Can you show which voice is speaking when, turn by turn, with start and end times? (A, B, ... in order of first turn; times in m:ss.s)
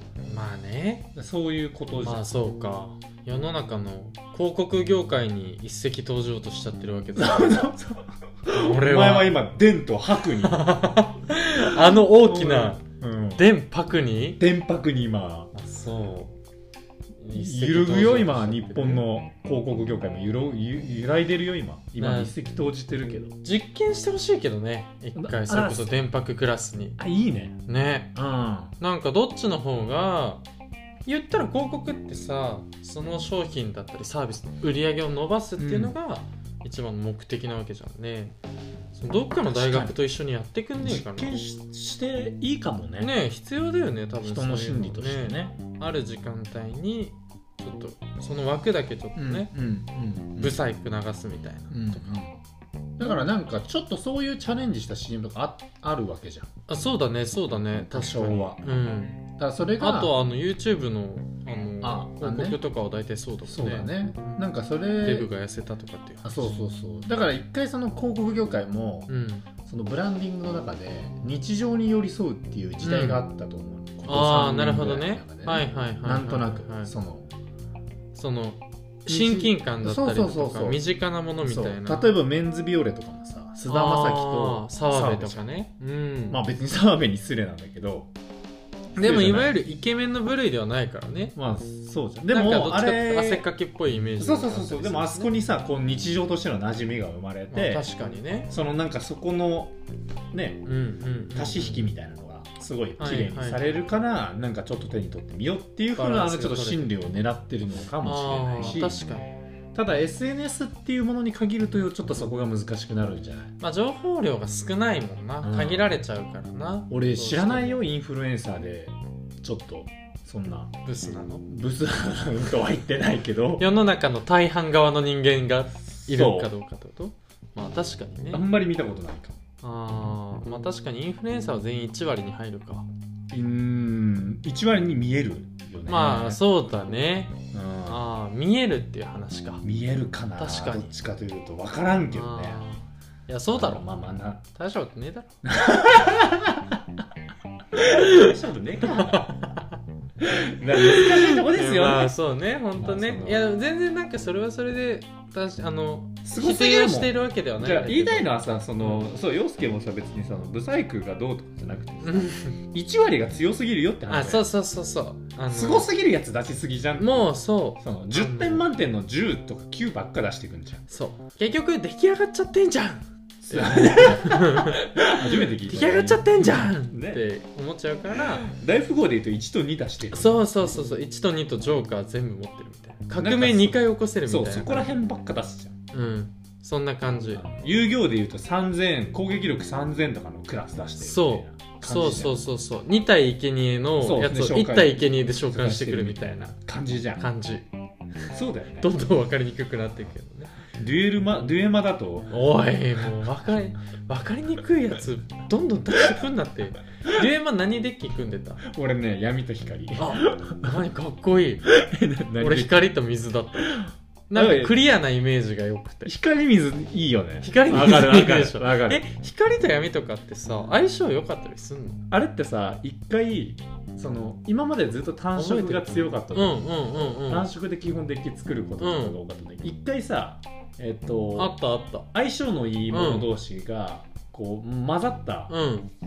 0:00.3-0:01.1 A
0:01.1-0:02.2 B
0:02.0-0:07.7 A
0:07.2-0:10.7 B
0:08.5-0:09.4 A
0:10.4-0:12.8 A
0:11.6-0:13.4 B
0:13.4-0:14.4 A
0:14.4-0:15.5 B
0:15.5-0:16.3 A
0:17.2-0:19.0 A
0:17.3-0:23.3 B
0:22.0-0:22.3 A
0:23.4-0:27.0 A
0:25.2-0:26.0 B
0:27.0-0:27.6 B
0:27.7-0:28.2 A
0:28.1-0:28.7 B
0:28.8-0:30.4 A
0:31.0-0:38.3 A
0:35.6-0:35.9 B
0:38.9-0:41.3 A
0:39.4-0:40.0 B
0:40.8-0:43.1 B
0:43.0-0:49.5 A
0:44.2-0:45.5 B
0:49.2-0:50.6 B
0:50.4-0:52.2 A
0:51.7-0:52.3 B
0:53.0-0:56.5 B
0:56.7-0:59.2 A
0:57.9-0:58.6 B
0:59.4-1:00.1 B
0:59.8-1:04.4 A
1:01.8-1:02.6 B
1:03.4-1:05.3 B
1:05.0-1:06.6 A
1:06.2-1:09.1 B
1:09.1-1:09.4 A
1:09.6-1:17.3 B
1:12.8-1:13.2 A
1:14.1-1:16.9 A
1:18.1-1:22.1 A
1:19.1-1:20.8 B
1:21.4-1:25.5 B
1:23.7-1:26.4 A
1:26.3-1:28.1 B
1:29.0-1:29.5 B
1:29.0-1:31.4 A
1:31.4-1:33.4 B
1:32.3-1:35.3 A
1:34.2-1:37.8 B
1:37.5-1:38.5 A
1:38.5-1:39.7 B
1:40.3-1:40.7 B
1:40.6-1:41.9 A
1:41.3-1:49.0 B
1:43.0-1:43.7 A
1:46.0-1:46.9 A
1:48.0-1:49.3 A
1:49.7-1:53.5 B
1:53.6-1:57.8 A
1:55.4-1:56.0 B
1:56.9-2:00.7 B
2:00.8-2:01.4 A
2:01.4-2:03.7 B
2:03.6-2:08.4 A
2:06.0-2:06.5 B
2:08.3-2:09.4 B
2:09.6-2:12.9 A
2:13.3-2:16.4 B
2:15.9-2:19.6 A
2:17.5-2:18.0 B
2:19.6-2:22.6 B
2:20.4-2:20.9 A
2:22.1-2:23.8 A
2:23.5-2:24.4 B
2:24.5-2:25.3 A
2:25.4-2:26.8 B
2:27.8-2:29.3 B
2:27.8-2:28.3 A
2:28.9-2:29.5 A
2:30.2-2:32.1 B
2:30.7-2:39.0 A
2:32.8-2:33.4 B
2:36.2-2:44.5 B
2:42.0-2:42.6 A
2:44.1-2:45.9 A
2:45.5-2:47.2 B
2:47.0-2:48.6 A
2:47.8-2:50.8 B
2:50.9-2:58.5 A
2:53.5-2:57.2 B
2:58.3-3:00.7 B
3:00.1-3:04.9 A
3:03.1-3:05.8 B
3:05.9-3:07.4 A
3:07.3-3:12.4 B
3:11.0-3:16.5 A
3:14.0-3:17.2 B
3:17.2-3:17.6 A
3:18.3-3:18.9 B
3:18.8-3:20.6 A
3:20.7-3:22.4 B
3:22.3-3:28.6 A
3:28.6-3:30.8 B
3:30.0-3:31.7 A
3:31.7-3:32.8 B
3:32.4-3:36.1 A
3:33.6-3:34.8 B
3:36.0-3:39.0 B
3:37.4-3:42.0 A
3:42.1-3:51.6 B
3:45.3-3:47.5 A
3:48.8-3:49.2 A
3:51.4-3:52.1 A
3:52.1-3:55.5 B
3:52.9-3:53.3 A
3:55.5-3:55.9 A